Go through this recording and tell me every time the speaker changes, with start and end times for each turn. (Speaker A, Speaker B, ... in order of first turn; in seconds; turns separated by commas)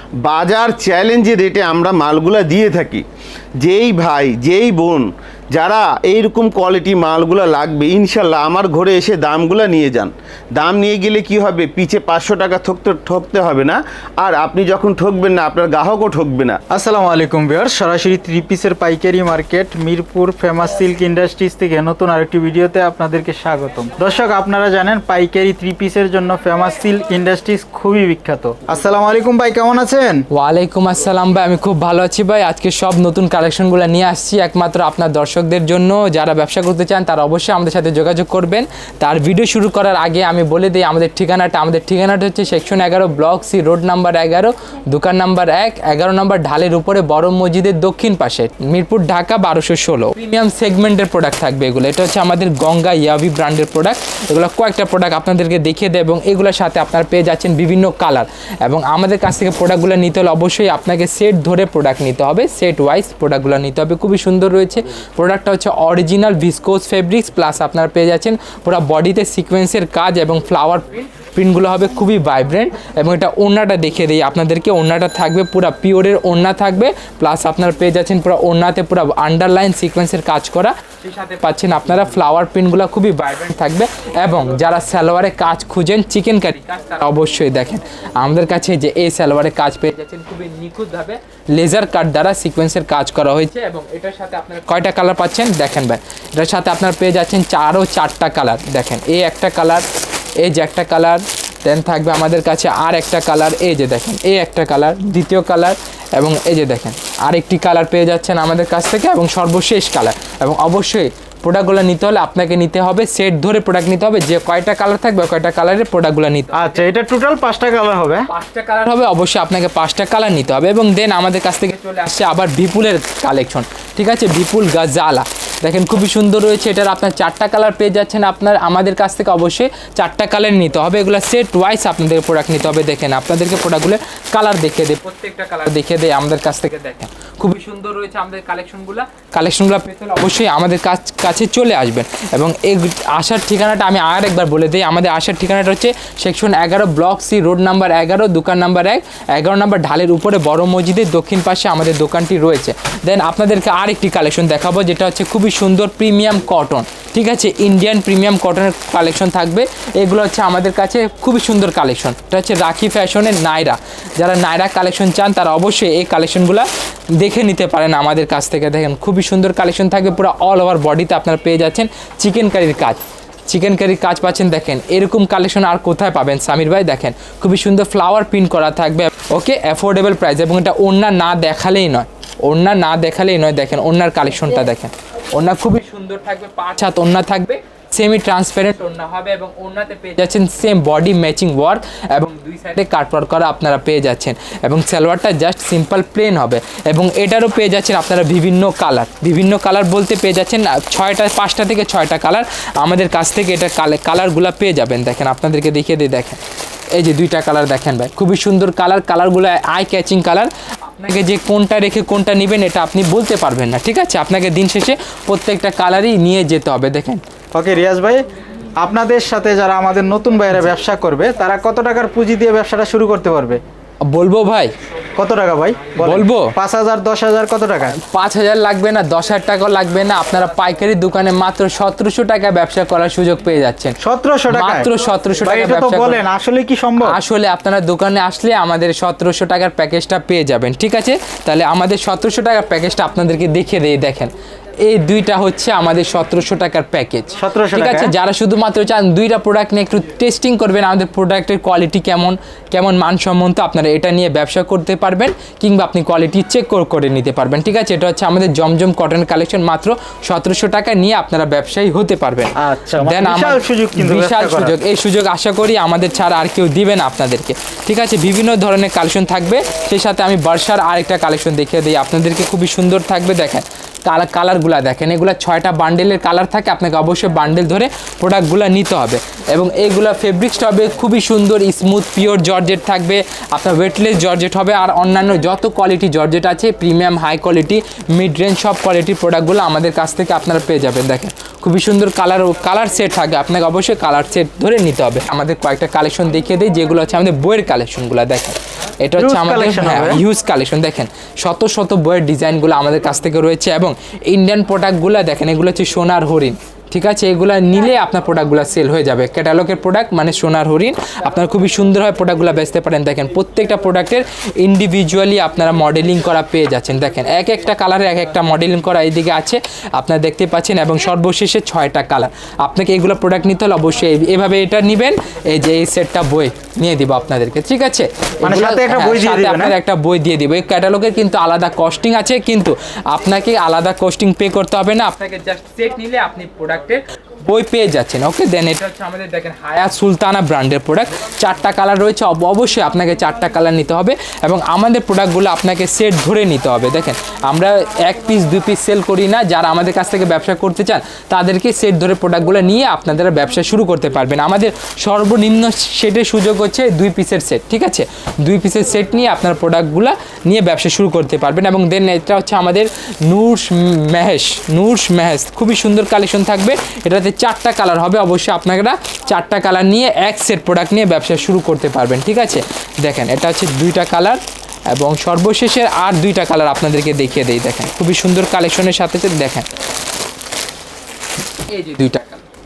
Speaker A: 0.2-3.0, Speaker A: 3.6-16.6, Speaker B: 16.7-30.2, Speaker C: 30.3-99.8, Speaker C: 100.4-116.8, Speaker B: 116.5-118.3, Speaker C: 118.3-206.4, Speaker C: 206.9-217.2, Speaker B: 217.5-218.2, Speaker B: 218.8-223.6, Speaker C: 224.0-224.7, Speaker B: 225.2-227.9, Speaker C: 226.0-226.5, Speaker C: 227.9-233.9, Speaker B: 234.0-234.9, Speaker C: 234.5-236.2, Speaker B: 235.4-237.2, Speaker C: 237.0-244.3, Speaker C: 244.8-379.7, Speaker B: 247.3-248.1, Speaker B: 262.6-264.8, Speaker B: 299.2-300.2, Speaker B: 328.4-329.8, Speaker C: 381.6-382.4